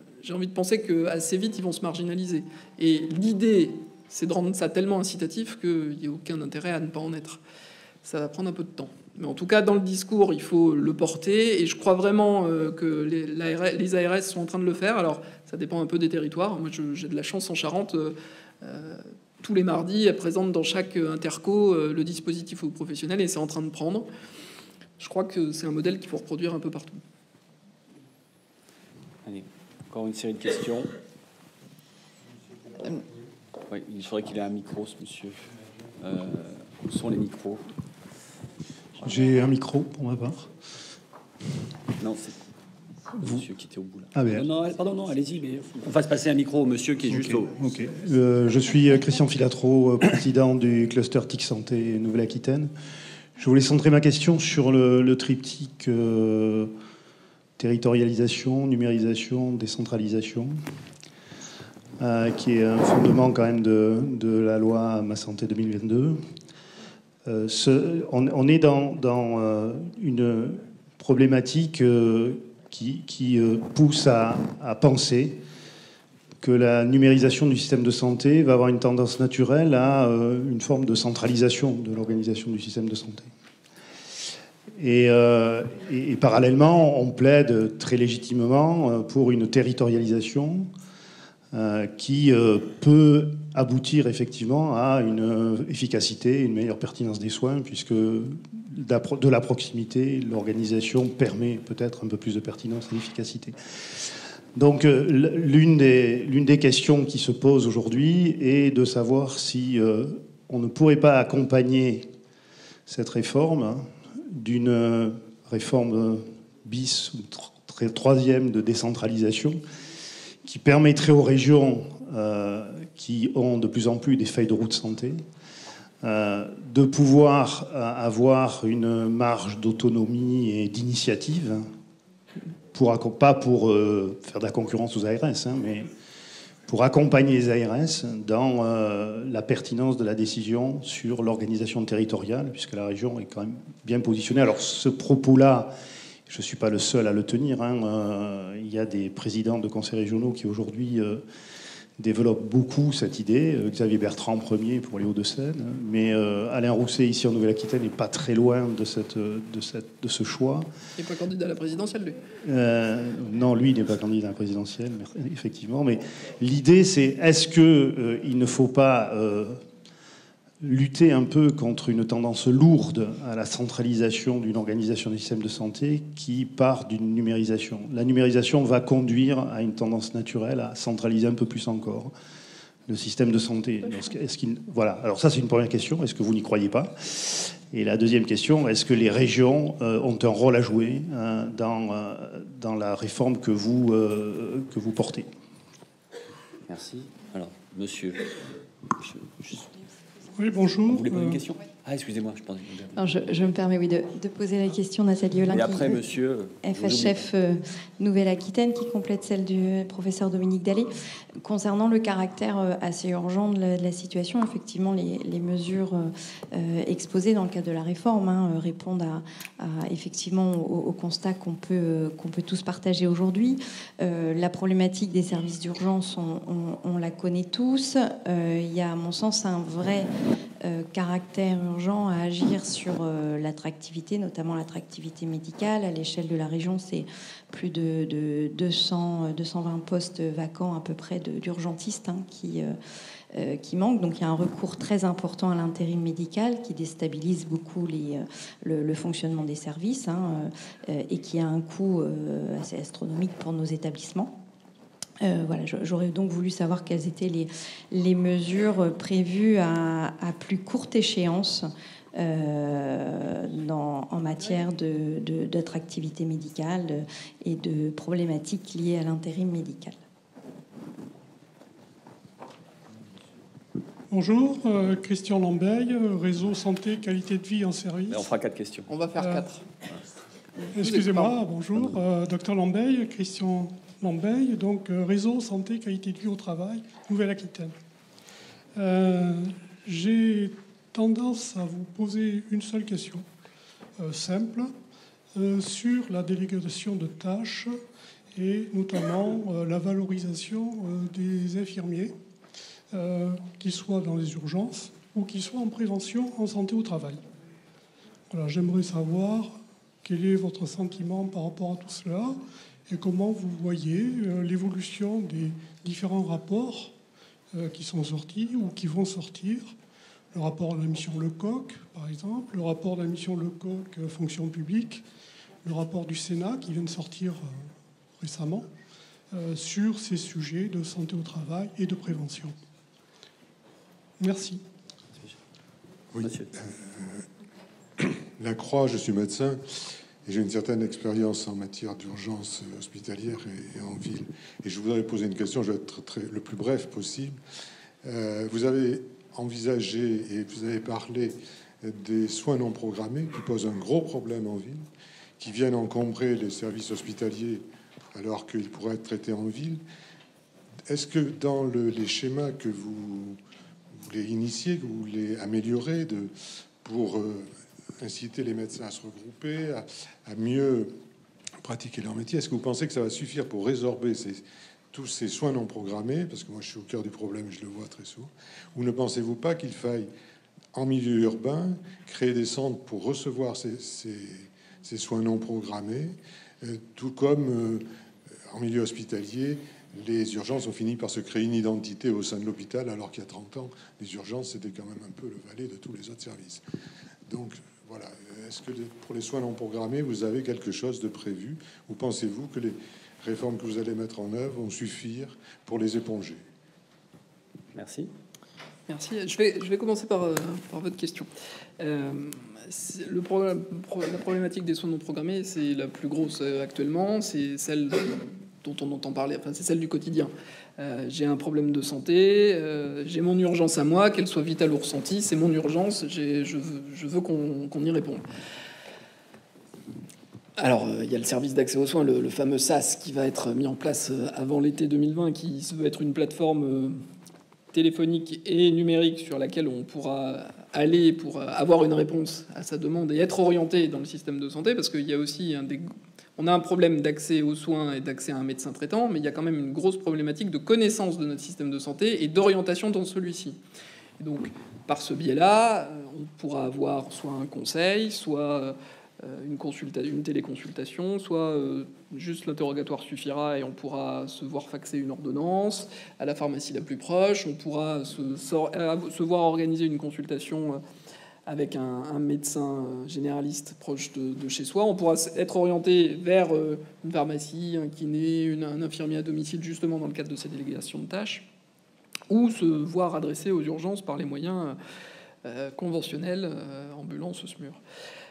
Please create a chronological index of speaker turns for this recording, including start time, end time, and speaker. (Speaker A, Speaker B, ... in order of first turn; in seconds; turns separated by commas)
Speaker A: 0.2-7.4, Speaker A: 8.0-24.1, Speaker A: 25.0-27.0, Speaker B: 29.3-30.9, Speaker B: 33.7-35.4, Speaker B: 36.0-37.6, Speaker C: 39.0-40.5, Speaker B: 42.0-42.3, Speaker B: 43.2-47.5, Speaker C: 43.2-43.5, Speaker C: 44.1-44.5, Speaker C: 47.0-52.7, Speaker C: 53.4-56.7, Speaker C: 57.6-60.5, Speaker C: 62.0-66.2, Speaker C: 67.2-75.4, Speaker C: 76.4-83.3, Speaker C: 84.8-90.7, Speaker C: 91.5-112.1, Speaker C: 112.9-119.6, Speaker C: 120.5-125.2, Speaker C: 126.0-131.7, Speaker C: 132.7-135.9, Speaker C: 136.7-145.7, Speaker C: 146.3-151.2, Speaker C: 152.0-160.7, Speaker A: 161.0-162.2, Speaker C: 162.4-169.6, Speaker C: 170.6-182.1, Speaker C: 182.9-195.3, Speaker B: 196.7-198.3, Speaker B: 199.0-199.7, Speaker D: 200.4-201.4, Speaker B: 200.9-203.5, Speaker E: 202.9-206.1, Speaker B: 205.5-207.3, Speaker E: 206.6-210.9, Speaker E: 211.4-230.1, Speaker E: 230.6-242.7, Speaker E: 243.3-254.3, Speaker E: 255.2-270.0, Speaker D: 274.1-278.3, Speaker B: 278.1-278.9, Speaker A: 278.9-279.6, Speaker D: 279.2-279.4, Speaker D: 280.7-287.7, Speaker A: 280.8-281.4, Speaker B: 281.7-282.0, Speaker D: 288.8-293.3, Speaker D: 294.0-294.7, Speaker D: 295.4-297.8, Speaker D: 298.3-302.1, Speaker D: 302.9-307.2, Speaker D: 308.3-316.9, Speaker D: 317.5-319.7, Speaker D: 320.3-325.0, Speaker D: 325.6-328.7, Speaker D: 329.3-332.5, Speaker D: 334.2-334.6, Speaker F: 336.1-337.2, Speaker B: 336.2-336.5, Speaker F: 338.0-339.6, Speaker F: 340.2-347.4, Speaker F: 348.1-354.9, Speaker F: 355.4-359.8, Speaker F: 360.9-363.4, Speaker F: 364.0-366.3, Speaker F: 366.8-370.9, Speaker F: 371.6-380.1, Speaker F: 380.7-387.9, Speaker F: 388.5-396.6, Speaker F: 397.3-406.4, Speaker B: 407.7-408.1, Speaker A: 408.9-428.2, Speaker A: 430.6-437.0, Speaker A: 437.7-453.6, Speaker A: 454.2-470.8, Speaker A: 471.5-481.5, Speaker A: 482.3-484.8, Speaker A: 485.4-487.8